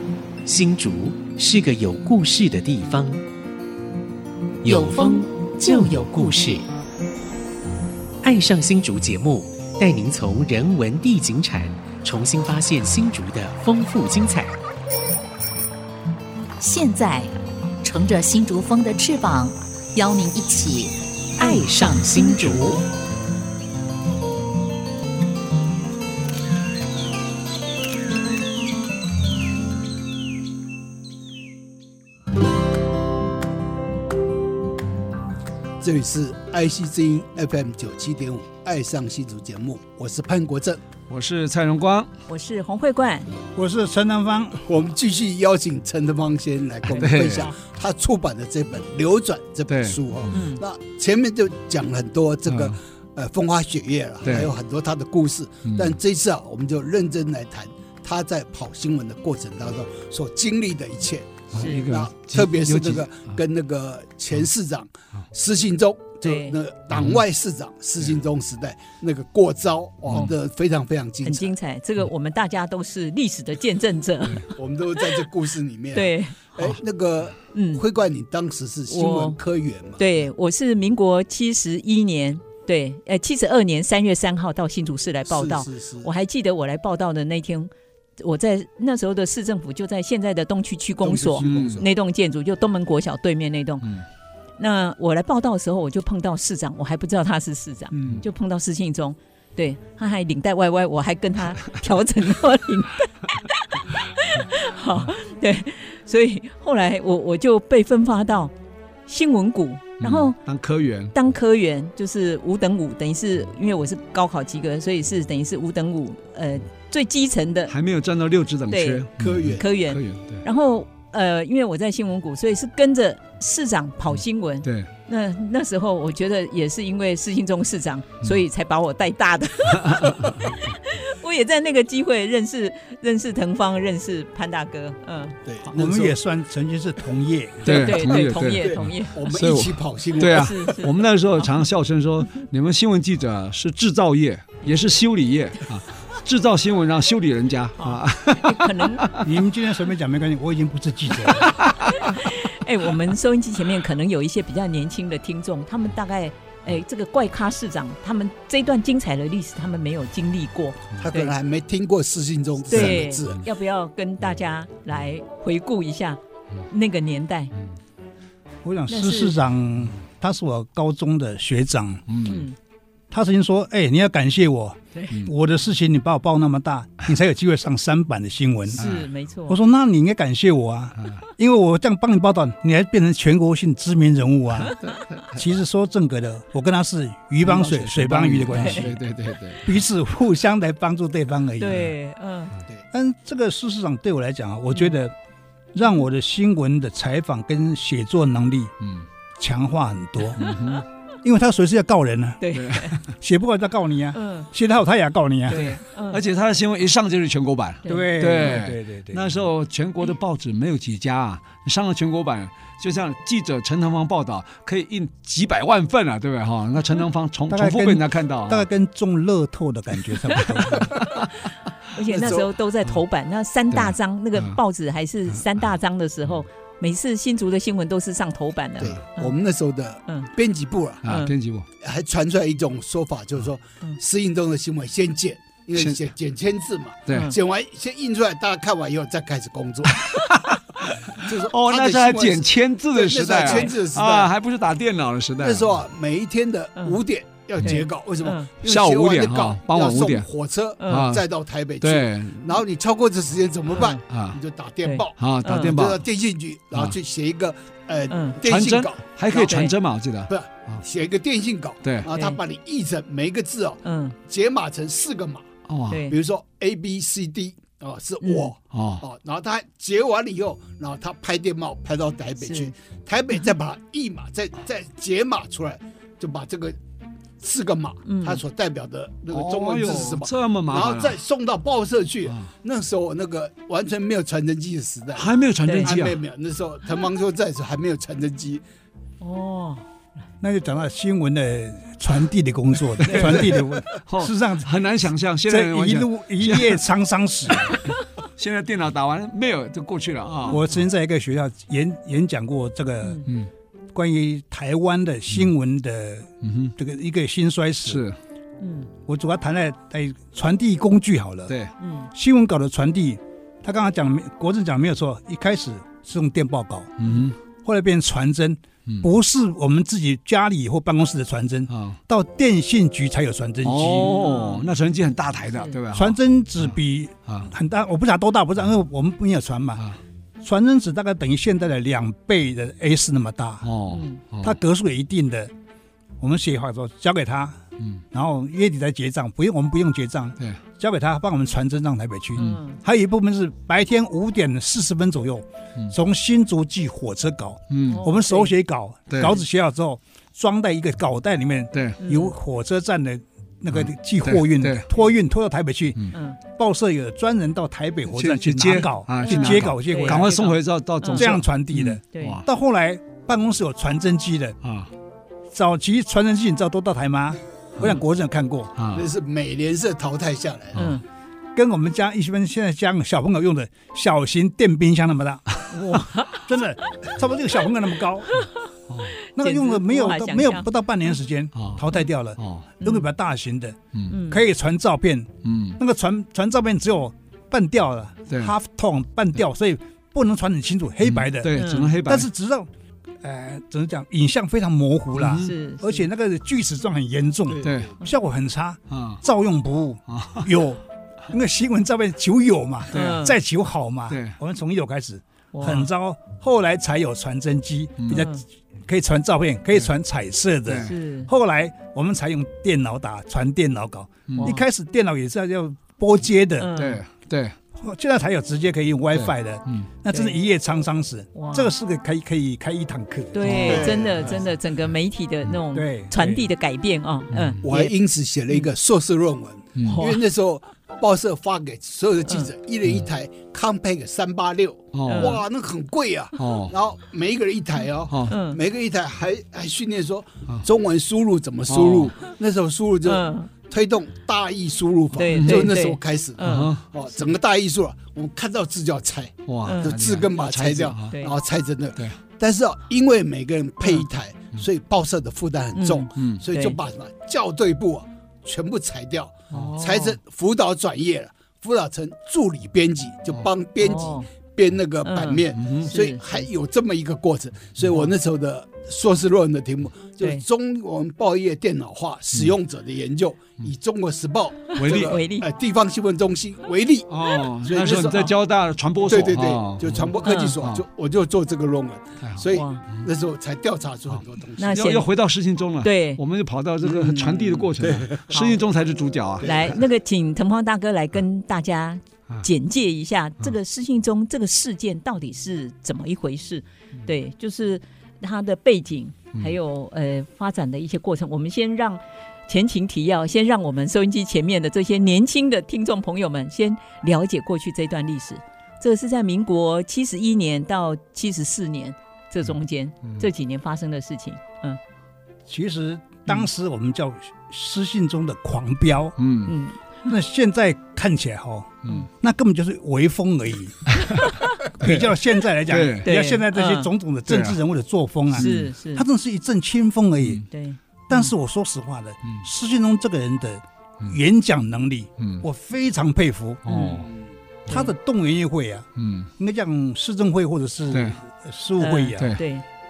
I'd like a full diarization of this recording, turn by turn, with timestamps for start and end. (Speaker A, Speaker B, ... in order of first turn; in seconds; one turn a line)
Speaker A: 0.4-3.2
Speaker A: 4.6-6.7
Speaker B: 4.7-5.9
Speaker A: 8.2-14.5
Speaker B: 16.6-22.7
Speaker A: 21.4-22.8
Speaker C: 35.8-40.8
Speaker D: 41.1-42.1
Speaker E: 42.3-43.3
Speaker F: 43.5-44.6
Speaker C: 44.6-71.5
Speaker D: 46.9-47.5
Speaker D: 49.7-50.3
Speaker E: 50.3-50.6
Speaker D: 52.5-52.8
Speaker D: 54.2-54.5
Speaker D: 55.6-56.0
Speaker D: 61.5-63.3
Speaker E: 61.5-61.8
Speaker E: 66.2-66.6
Speaker D: 66.9-67.2
Speaker D: 70.1-70.3
Speaker E: 71.2-74.5
Speaker C: 74.5-80.0
Speaker E: 75.9-76.5
Speaker E: 77.5-77.8
Speaker E: 78.9-79.4
Speaker E: 80.0-93.9
Speaker C: 85.3-86.1
Speaker C: 91.0-91.9
Speaker D: 91.4-91.8
Speaker E: 94.6-108.5
Speaker C: 97.9-98.2
Speaker E: 109.1-110.4
Speaker D: 110.0-111.1
Speaker E: 111.1-117.7
Speaker D: 117.7-120.4
Speaker E: 118.7-135.8
Speaker C: 119.2-119.7
Speaker D: 124.6-124.9
Speaker D: 129.7-130.4
Speaker C: 135.5-136.1
Speaker F: 135.7-137.9
Speaker D: 137.6-149.3
Speaker E: 137.6-139.2
Speaker C: 137.9-140.5
Speaker E: 140.2-141.5
Speaker E: 147.8-149.2
Speaker F: 149.1-151.6
Speaker D: 151.4-151.7
Speaker E: 151.8-161.3
Speaker C: 161.0-163.4
Speaker E: 162.7-167.5
Speaker D: 162.7-163.0
Speaker F: 168.6-172.1
Speaker E: 168.9-169.4
Speaker D: 172.1-172.4
Speaker E: 172.2-172.6
Speaker F: 173.1-178.8
Speaker E: 178.7-179.6
Speaker D: 178.8-179.1
Speaker F: 179.5-189.0
Speaker D: 187.4-189.8
Speaker E: 188.5-188.8
Speaker F: 189.6-191.9
Speaker E: 191.6-192.6
Speaker F: 192.9-195.1
Speaker F: 195.7-198.7
Speaker D: 198.8-199.1
Speaker F: 199.4-200.5
Speaker D: 200.4-200.8
Speaker E: 200.4-200.7
Speaker F: 201.2-202.4
Speaker E: 202.4-203.0
Speaker D: 202.5-203.0
Speaker F: 203.0-205.7
Speaker E: 204.1-204.5
Speaker E: 205.5-206.2
Speaker D: 205.5-218.7
Speaker E: 207.8-208.6
Speaker F: 207.9-209.3
Speaker F: 217.5-221.0
Speaker D: 220.5-221.3
Speaker E: 221.9-229.3
Speaker C: 222.1-222.5
Speaker D: 223.7-224.6
Speaker C: 228.8-231.0
Speaker D: 231.0-231.7
Speaker E: 231.1-231.3
Speaker C: 231.8-240.1
Speaker D: 235.7-236.0
Speaker D: 237.1-237.3
Speaker E: 237.1-237.4
Speaker D: 239.9-245.7
Speaker C: 241.1-244.3
Speaker E: 243.4-243.7
Speaker C: 245.4-259.7
Speaker E: 247.6-248.5
Speaker D: 248.6-250.3
Speaker E: 250.8-251.0
Speaker D: 250.9-251.2
Speaker D: 251.8-252.5
Speaker D: 253.8-254.4
Speaker E: 254.8-255.8
Speaker D: 255.2-256.1
Speaker E: 258.1-258.4
Speaker D: 258.4-260.8
Speaker E: 259.4-259.7
Speaker C: 260.3-265.5
Speaker D: 261.8-262.1
Speaker E: 262.1-262.4
Speaker E: 263.8-264.1
Speaker D: 265.7-266.0
Speaker E: 265.9-266.1
Speaker C: 266.1-276.8
Speaker E: 268.2-268.5
Speaker D: 268.7-269.0
Speaker E: 272.4-272.7
Speaker C: 277.4-285.2
Speaker E: 278.1-278.4
Speaker D: 279.3-281.2
Speaker D: 285.1-286.2
Speaker E: 285.6-285.9
Speaker C: 285.8-288.6
Speaker E: 289.2-289.8
Speaker F: 290.4-294.7
Speaker D: 293.0-296.8
Speaker E: 293.1-293.4
Speaker F: 295.4-297.7
Speaker D: 297.5-297.8
Speaker D: 298.4-300.6
Speaker F: 300.5-303.3
Speaker E: 303.0-303.3
Speaker F: 303.9-308.0
Speaker D: 306.4-306.7
Speaker D: 307.8-308.1
Speaker E: 308.6-308.9
Speaker F: 309.0-311.6
Speaker E: 311.8-312.1
Speaker F: 312.1-317.1
Speaker D: 317.0-317.4
Speaker F: 317.6-324.2
Speaker D: 321.7-322.0
Speaker D: 323.6-326.8
Speaker E: 324.0-324.6
Speaker F: 325.9-329.8
Speaker F: 330.4-333.7
Speaker D: 333.6-334.6
Speaker E: 333.9-334.2
Speaker F: 334.4-335.5
Speaker F: 336.2-337.6
Speaker F: 338.1-360.4
Speaker E: 342.4-342.8
Speaker D: 347.7-348.0
Speaker E: 347.9-348.5
Speaker D: 349.1-349.3
Speaker D: 351.7-352.0
Speaker E: 352.0-352.3
Speaker D: 353.7-354.9
Speaker E: 356.1-356.4
Speaker D: 358.1-362.4
Speaker E: 359.2-361.4
Speaker F: 361.1-364.6
Speaker E: 362.1-362.4
Speaker D: 364.6-364.9
Speaker F: 365.5-368.7
Speaker D: 367.8-368.0
Speaker D: 368.8-369.1
Speaker C: 368.9-370.8
Speaker E: 370.8-371.0
Speaker F: 371.5-378.5
Speaker E: 375.7-376.4
Speaker D: 378.9-379.1
Speaker E: 379.2-380.7
Speaker F: 379.3-392.7
Speaker D: 381.5-381.8
Speaker D: 382.4-382.7
Speaker E: 382.8-383.1
Speaker E: 384.1-384.4
Speaker D: 385.4-385.8
Speaker D: 388.3-388.6
Speaker D: 391.0-392.3
Speaker E: 391.5-391.9
Speaker F: 393.2-416.7
Speaker D: 395.1-395.5
Speaker E: 395.4-396.1
Speaker C: 397.5-397.9
Speaker D: 397.6-397.9
Speaker D: 398.9-399.2
Speaker D: 400.1-400.5
Speaker D: 402.9-403.2
Speaker E: 402.9-403.4
Speaker D: 404.1-404.4
Speaker E: 405.5-405.9
Speaker D: 408.0-408.3
Speaker E: 408.1-408.4
Speaker D: 410.7-410.9
Speaker E: 410.8-411.3
Speaker D: 414.3-414.6
Speaker E: 416.6-417.0
Speaker D: 416.7-417.6
Speaker F: 417.7-424.0
Speaker D: 419.1-419.9
Speaker E: 420.1-420.4
Speaker E: 421.3-421.7
Speaker E: 423.3-427.9
Speaker D: 423.4-424.0
Speaker C: 423.5-424.4
Speaker F: 425.7-426.5
Speaker D: 427.3-427.6
Speaker C: 427.6-478.4
Speaker D: 429.8-430.0
Speaker E: 429.8-430.2
Speaker D: 434.9-435.4
Speaker E: 435.1-435.4
Speaker D: 436.4-436.7
Speaker E: 438.3-438.6
Speaker D: 441.7-442.1
Speaker E: 443.0-443.5
Speaker E: 445.1-446.7
Speaker D: 445.2-445.8
Speaker D: 446.4-446.9
Speaker D: 449.4-451.1
Speaker E: 449.6-450.0
Speaker E: 451.1-451.3
Speaker E: 455.7-456.8
Speaker D: 456.1-456.4
Speaker E: 459.5-460.2
Speaker E: 463.8-464.2
Speaker E: 465.0-466.5
Speaker D: 465.5-465.9
Speaker E: 474.7-475.5
Speaker D: 474.8-475.2
Speaker D: 477.1-480.8
Speaker C: 479.1-485.0
Speaker E: 480.2-480.6
Speaker D: 482.2-483.1
Speaker E: 482.5-482.8
Speaker D: 484.1-489.8
Speaker E: 484.6-485.1
Speaker E: 485.8-486.2
Speaker C: 486.8-488.4
Speaker E: 488.3-488.6
Speaker C: 489.4-489.8
Speaker E: 489.4-514.8
Speaker F: 515.5-519.2
Speaker D: 519.2-519.5
Speaker E: 519.5-519.8
Speaker F: 520.1-524.0
Speaker D: 523.9-524.2
Speaker E: 524.2-524.5
Speaker F: 524.6-530.4
Speaker D: 524.8-525.1
Speaker D: 525.7-526.1
Speaker E: 526.0-526.9
Speaker D: 527.3-527.6
Speaker D: 528.4-528.7
Speaker E: 528.4-529.0
Speaker E: 530.5-531.3
Speaker F: 531.1-536.6
Speaker D: 535.2-535.4
Speaker D: 536.6-537.1
Speaker E: 536.6-537.1
Speaker E: 537.7-537.9
Speaker F: 537.7-542.4
Speaker D: 539.0-539.3
Speaker D: 540.9-541.2
Speaker E: 541.8-542.6